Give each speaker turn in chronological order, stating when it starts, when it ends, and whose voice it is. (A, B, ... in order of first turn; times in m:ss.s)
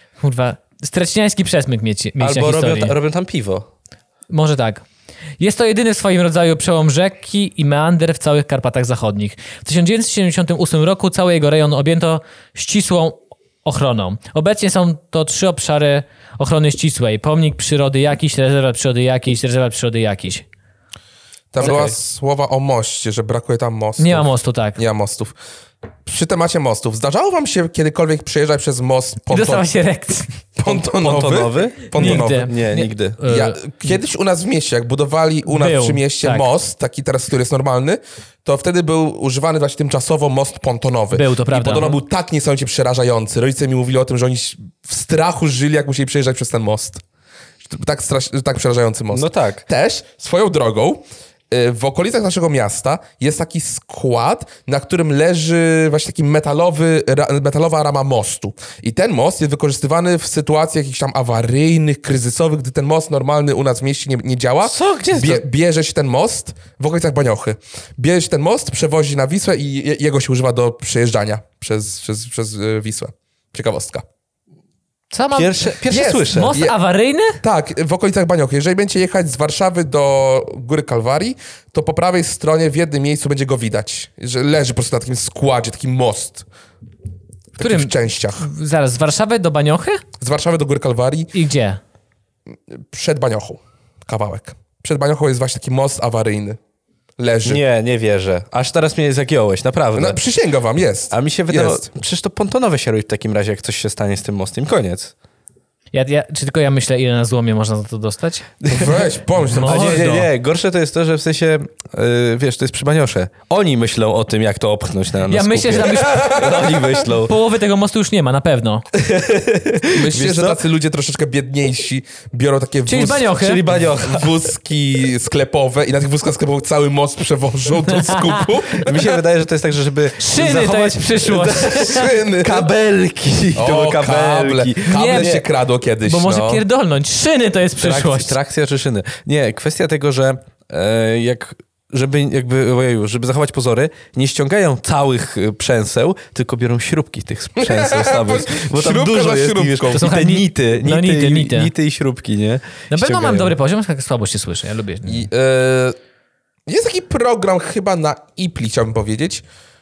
0:00.2-0:03.0 A
0:02.2-0:03.7 B
0:04.3-0:04.8 A
0:05.4-0:20.4 A
0:21.5-0:25.3 C
0:21.6-0:22.0 B
0:24.0-0:24.8 A
0:26.0-0:29.6 C
0:29.3-0:30.3 A
0:30.6-0:32.5 C
0:30.6-0:33.2 B
0:32.0-0:33.6 A
0:33.2-0:47.0 C
0:35.5-0:36.5 A
0:41.1-0:42.0 A
0:47.6-1:14.0 C
0:49.1-0:49.6 B
1:04.6-1:05.4 B
1:15.1-1:15.7 A
1:15.3-1:16.6 B
1:15.9-1:16.7 C
1:16.3-1:17.4 A
1:17.4-1:26.4 C
1:27.6-1:28.5 C
1:27.6-1:30.0 A
1:30.2-1:31.3 C
1:31.3-1:31.8 A
1:32.7-1:36.6 C
1:37.2-1:37.6 C
1:37.4-1:40.2 B
1:39.9-1:41.9 C
1:41.1-1:45.1 B
1:45.9-1:48.5 A
1:48.6-1:57.3 B
1:48.7-1:49.9 C
1:49.5-1:50.3 A
1:55.3-1:58.8 A
1:55.9-1:56.8 C
1:58.9-2:00.6 B
1:59.9-2:09.2 C
2:02.8-2:03.6 A
2:03.2-2:04.3 B
2:08.0-2:08.4 A
2:08.8-2:15.4 B
2:10.2-2:12.1 A
2:11.7-2:12.7 C
2:13.5-2:16.6 C
2:14.9-2:15.4 A
2:16.0-2:18.4 A
2:17.8-2:33.5 B
2:27.6-2:30.0 C
2:29.9-2:31.7 A
2:32.9-2:35.3 A
2:35.0-2:36.0 C
2:36.7-2:39.4 C